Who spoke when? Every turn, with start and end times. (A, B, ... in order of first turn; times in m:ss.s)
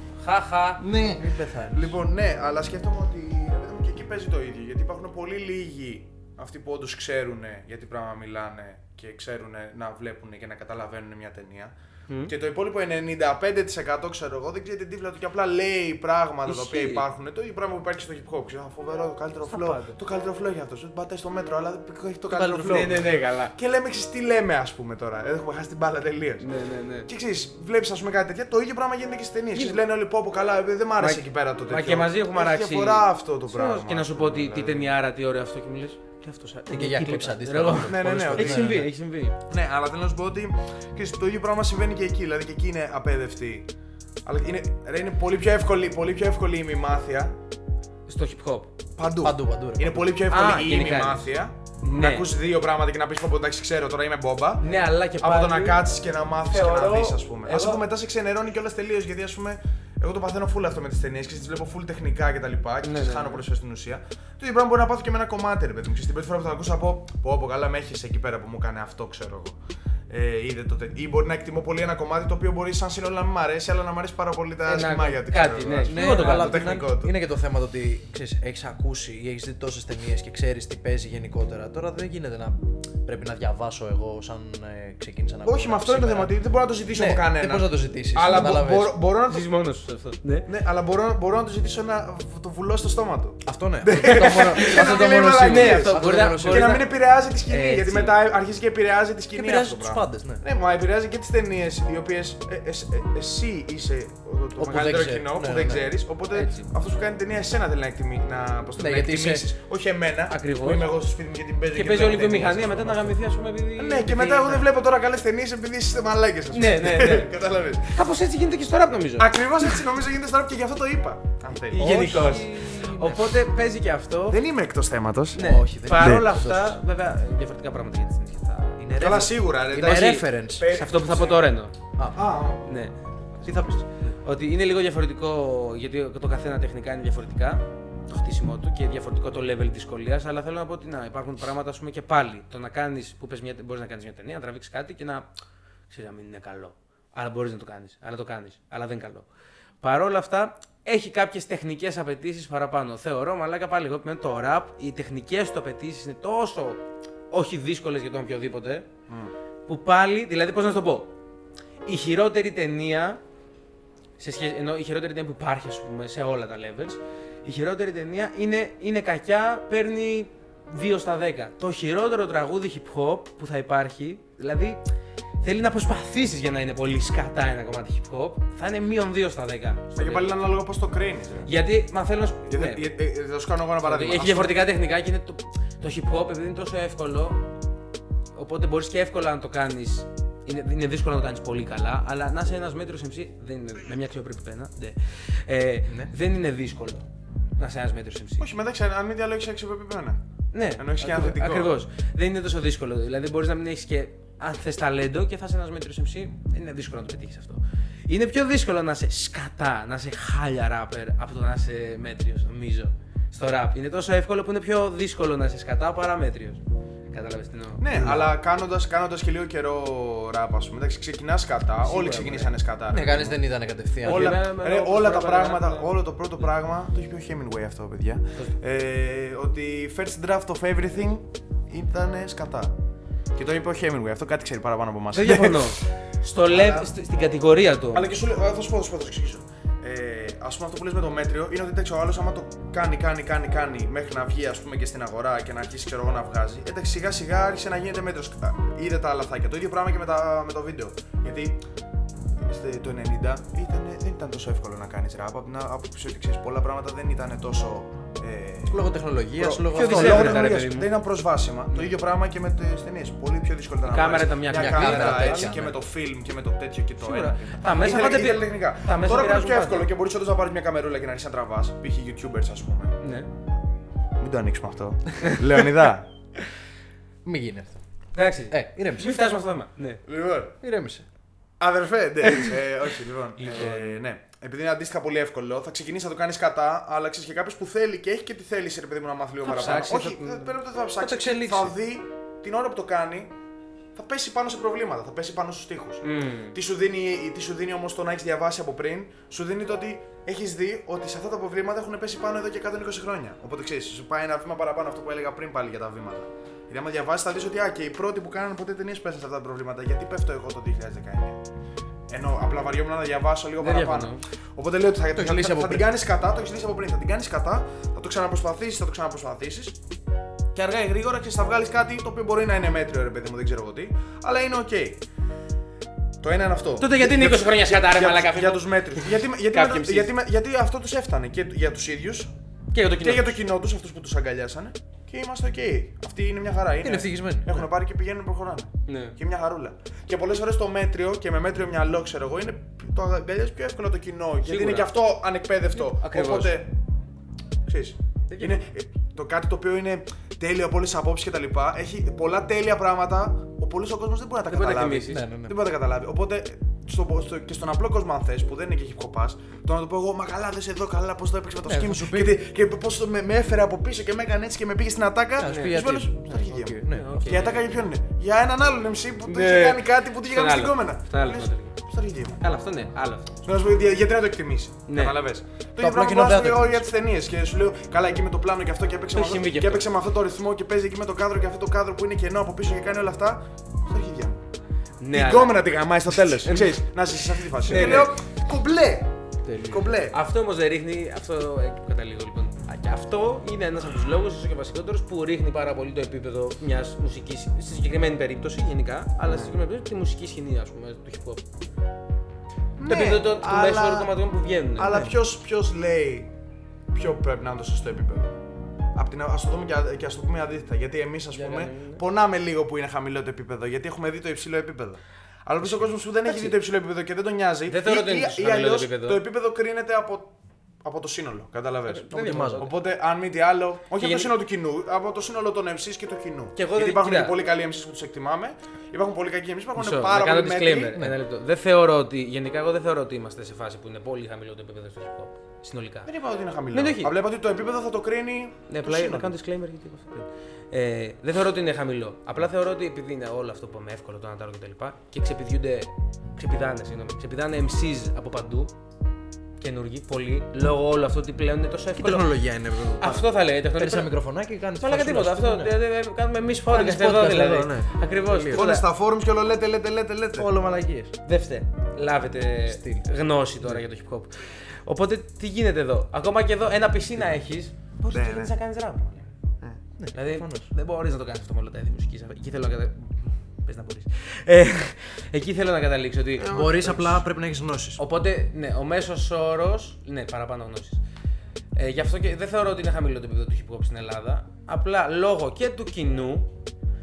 0:00.2-0:00.8 A
0:00.8-0:02.0 B
0:01.7-0:11.7 C
0:12.2-0:26.5 C
0:16.4-0:17.0 A
0:19.4-0:20.0 A
0:22.3-0:23.0 B
0:22.6-0:23.5 A
0:26.4-0:27.1 A
0:27.1-0:34.9 C
0:29.5-0:29.8 A
0:31.0-0:39.4 A
0:36.7-0:38.9 B
0:37.8-0:38.9 C
0:39.5-0:43.7 C
0:44.2-0:47.3 C
0:48.1-0:48.7 A
0:49.0-0:54.6 C
0:49.2-0:50.1 B
0:50.3-0:51.3 A
0:51.8-0:52.3 A
0:54.6-0:55.8 A
0:55.2-1:09.6 C
0:56.5-0:57.8 A
1:02.8-1:03.4 A
1:10.1-1:17.1 C
1:14.6-1:16.7 A
1:15.8-1:26.3 B
1:25.4-1:29.5 C
1:26.9-1:29.0 B
1:28.3-1:28.5 A
1:29.3-1:30.5 A
1:30.4-1:53.2 C
1:33.4-1:36.9 B
1:34.0-1:36.9 A
1:37.5-1:38.2 A
1:39.3-1:40.4 B
1:44.6-1:45.9 B
1:46.3-1:46.7 A
1:48.8-1:49.5 B
1:50.3-1:50.9 A
1:51.7-1:54.7 A
1:53.8-1:58.0 C
1:56.5-1:57.3 A
1:57.9-1:59.7 A
1:59.2-2:02.2 C
2:01.7-2:04.4 A
2:01.8-2:03.3 B
2:04.3-2:05.4 C
2:05.3-2:06.8 B
2:05.3-2:09.1 A
2:06.0-2:06.2 C
2:08.8-2:10.7 B
2:09.0-2:11.5 C
2:09.7-2:11.7 A
2:12.0-2:12.2 B
2:12.1-2:12.7 C
2:12.6-2:25.3 A
2:25.9-2:29.3 A
2:29.8-2:38.9 A
2:39.7-2:41.1 A
2:41.8-2:43.2 A
2:44.2-2:54.8 A
2:55.4-3:00.4 A
3:00.0-3:01.5 C
3:01.4-3:02.8 A
3:02.5-3:04.6 C
3:03.8-3:07.4 A
3:08.3-3:18.5 A
3:18.4-3:20.2 C
3:20.5-3:38.1 A
3:20.8-3:21.8 C
3:37.8-3:43.4 C
3:38.0-3:38.2 B
3:41.8-3:42.5 A
3:42.9-3:44.4 B
3:44.0-3:45.9 A
3:44.0-3:52.7 C
3:53.3-3:55.9 C
3:55.1-3:58.1 A
3:56.5-3:56.9 C
3:57.9-4:11.6 C
4:12.4-4:33.0 C
4:18.7-4:20.6 B
4:19.7-4:20.9 A
4:23.8-4:25.5 A
4:24.5-4:25.8 B
4:27.0-4:29.9 A
4:33.0-4:33.3 A
4:34.2-4:36.1 C
4:37.2-4:37.7 B
4:38.1-4:40.0 A
4:38.5-4:39.4 B
4:40.0-4:40.6 C
4:40.6-4:41.0 B
4:41.6-4:53.3 C
4:43.4-4:44.0 A
4:49.4-4:50.5 A
4:51.0-4:51.7 B
4:53.9-5:11.4 C
4:56.0-4:56.6 A
5:12.1-5:19.8 C
5:13.6-5:14.2 A
5:15.1-5:15.9 B
5:20.5-5:25.0 C
5:26.2-5:32.3 C
5:26.8-5:30.1 A
5:32.7-5:33.4 A
5:33.0-5:46.8 C
5:36.8-5:37.7 B
5:38.9-5:39.1 A
5:44.4-5:44.9 A
5:45.7-5:46.6 A
5:47.7-6:12.4 C
5:54.4-5:55.2 A
5:55.1-5:55.6 B
6:01.6-6:02.4 B
6:05.4-6:07.2 B
6:05.4-6:05.8 A
6:06.9-6:07.7 A
6:09.2-6:11.8 A
6:12.4-6:13.4 A
6:13.4-6:24.4 C
6:14.9-6:15.1 A
6:15.8-6:16.8 B
6:19.1-6:19.9 A
6:25.0-6:25.7 A
6:25.1-6:29.1 C
6:26.4-6:26.8 A
6:27.6-6:28.1 A
6:27.7-6:28.0 B
6:29.4-6:30.0 B
6:29.6-6:30.2 C
6:30.1-6:41.4 A
6:39.3-6:39.5 C
6:42.8-6:44.1 C
6:42.9-6:45.0 A
6:44.8-6:46.3 C
6:44.8-6:45.1 B
6:46.9-6:48.3 C
6:48.9-7:10.9 C
6:51.3-6:52.0 A
6:56.2-6:56.6 A
6:57.7-6:59.2 A
7:01.9-7:02.7 A
7:02.1-7:02.7 B
7:04.0-7:04.3 A
7:06.6-7:07.4 A
7:09.8-7:16.1 A
7:16.0-7:19.3 C
7:16.7-7:17.1 A
7:18.7-7:28.7 A
7:29.6-7:32.3 A
7:32.0-7:35.7 B
7:33.0-7:34.1 A
7:34.8-7:38.8 A
7:36.7-7:38.7 B
7:38.5-7:40.5 C
7:40.3-7:41.2 B
7:41.2-7:49.3 A
7:42.6-7:43.1 B
7:48.1-7:48.5 C
7:50.0-7:50.7 B
7:50.1-7:57.2 A
7:56.5-7:58.0 B
7:58.0-8:01.0 A
8:01.7-8:06.5 A